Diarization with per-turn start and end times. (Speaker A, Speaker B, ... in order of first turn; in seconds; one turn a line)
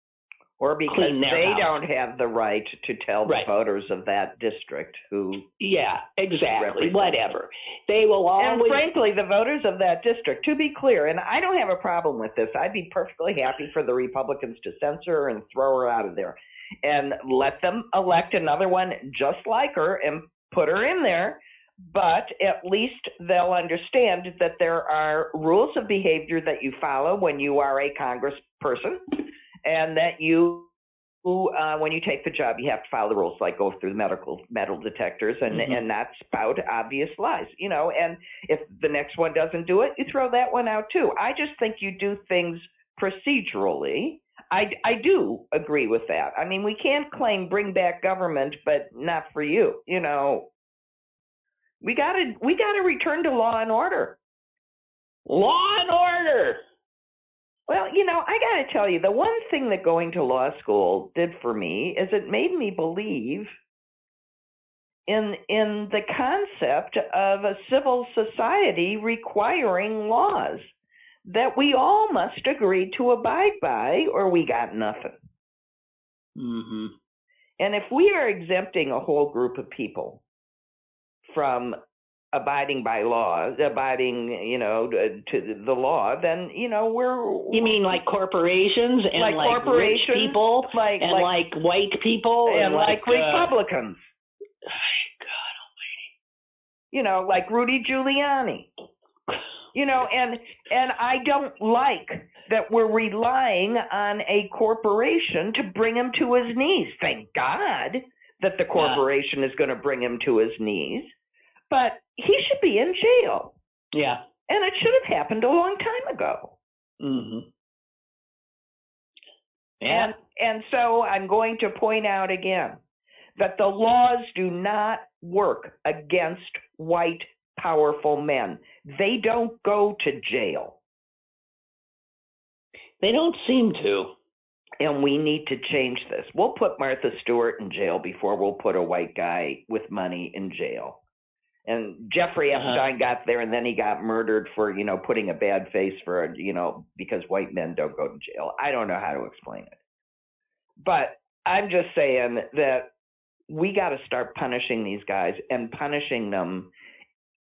Speaker A: 0.6-5.4
Speaker B: 0.9-1.7
Speaker B: 5.6-8.8
Speaker A: 6.5-7.3
Speaker A: 8.4-30.7
Speaker A: 31.2-50.4
Speaker B: 35.5-35.8
Speaker A: 51.8-54.1
Speaker B: 55.2-56.6
Speaker A: 57.7-63.5
Speaker A: 65.1-70.7
Speaker A: 71.2-75.2
Speaker B: 76.3-76.9
Speaker A: 77.6-80.2
Speaker A: 81.3-81.8
Speaker A: 82.3-88.0
Speaker B: 87.5-93.5
Speaker A: 89.2-91.3
Speaker A: 92.5-94.0
Speaker B: 94.6-95.5
Speaker A: 96.9-98.7
Speaker A: 99.7-111.1
Speaker B: 108.7-109.0
Speaker A: 111.7-113.5
Speaker B: 113.9-114.2
Speaker A: 114.5-116.5
Speaker B: 117.0-117.4
Speaker B: 119.8-120.1
Speaker A: 119.8-122.8
Speaker A: 123.4-130.8
Speaker B: 133.0-134.1
Speaker A: 134.8-141.0
Speaker A: 141.7-149.8
Speaker B: 142.5-142.8
Speaker A: 150.8-152.8
Speaker A: 153.5-156.7